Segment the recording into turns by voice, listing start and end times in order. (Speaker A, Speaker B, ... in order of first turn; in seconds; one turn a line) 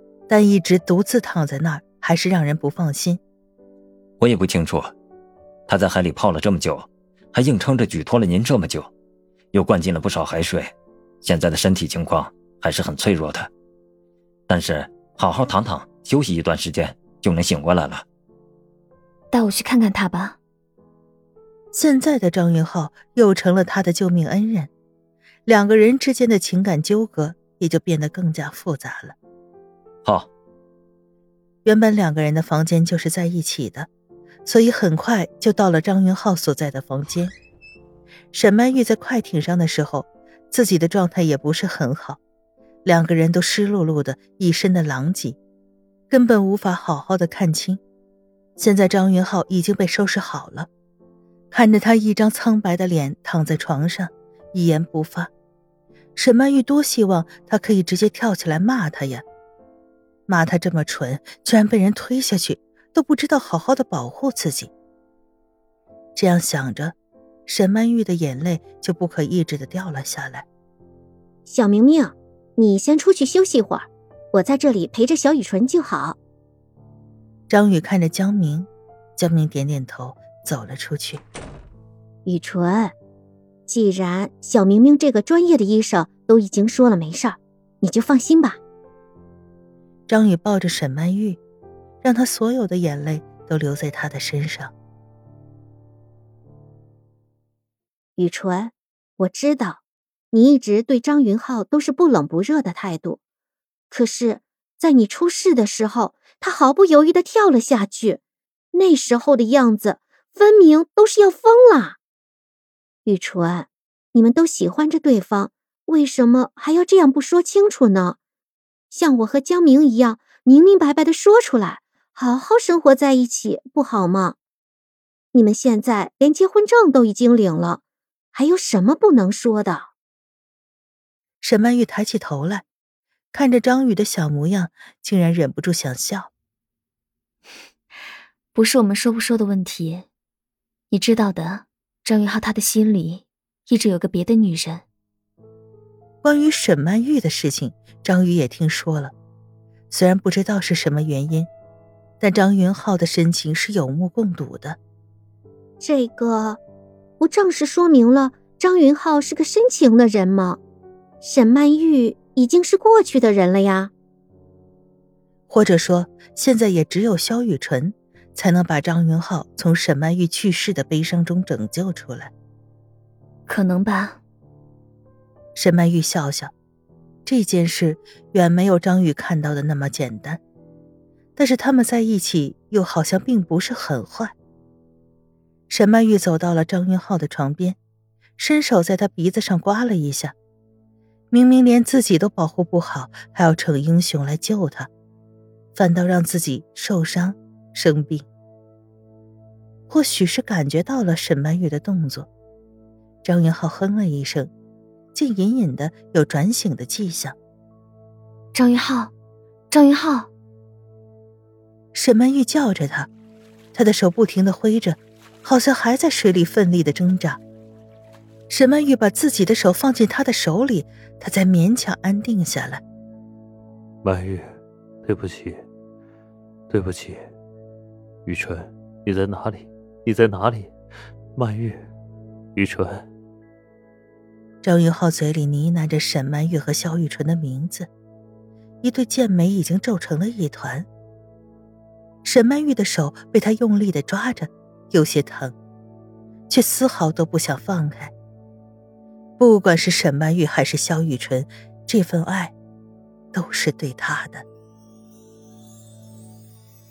Speaker A: 0.3-3.2
Speaker B: 4.2-4.9
Speaker B: 5.7-8.9
Speaker B: 9.5-13.5
Speaker B: 14.5-18.0
Speaker C: 19.3-20.4
Speaker A: 21.7-24.7
Speaker A: 25.4-29.1
Speaker A: 31.6-33.9
Speaker A: 34.5-37.3
Speaker A: 38.3-42.2
Speaker A: 42.8-45.4
Speaker A: 46.1-47.8
Speaker A: 48.6-50.7
Speaker A: 51.5-55.3
Speaker A: 56.1-59.2
Speaker A: 60.3-64.7
Speaker A: 66.2-66.9
Speaker A: 67.5-70.5
Speaker D: 71.5-76.2
Speaker A: 77.5-81.2
Speaker D: 82.2-82.9
Speaker D: 83.7-88.6
Speaker A: 90.1-91.4
Speaker A: 92.0-94.7
Speaker D: 98.2-99.8
Speaker D: 100.3-103.2
Speaker D: 103.9-108.2
Speaker D: 108.7-112.0
Speaker D: 113.0-118.2
Speaker D: 118.9-124.3
Speaker D: 125.3-127.8
Speaker D: 128.3-129.9
Speaker A: 131.4-132.6
Speaker A: 133.3-136.3
Speaker C: 138.5-140.1
Speaker C: 140.9-144.8
Speaker A: 146.2-149.1
Speaker A: 149.9-151.5
Speaker A: 152.2-154.8
Speaker D: 155.8-156.6
Speaker D: 157.2-160.6
Speaker D: 161.2-163.9
Speaker A: 165.5-172.3
Speaker C: 173.5-174.2
Speaker A: 175.5-176.5
Speaker A: 177.2-180.4
Speaker A: 181.3-184.3
Speaker A: 185.7-187.8
Speaker A: 188.4-190.3
Speaker A: 191.3-194.9
Speaker A: 195.7-198.2
Speaker A: 199.9-202.3
Speaker A: 203.2-204.5
Speaker A: 205.1-207.3
Speaker C: 208.5-209.1
Speaker C: 209.7-210.3
Speaker A: 211.9-213.1
Speaker A: 213.7-217.4
Speaker A: 218.5-222.8
Speaker E: 224.0-225.6
Speaker E: 226.7-227.3
Speaker E: 228.2-230.7
Speaker E: 231.4-231.8
Speaker E: 232.6-233.1
Speaker A: 234.6-237.9
Speaker A: 238.8-240.9
Speaker A: 242.2-245.6
Speaker A: 246.5-248.1
Speaker A: 249.4-252.5
Speaker A: 253.3-254.4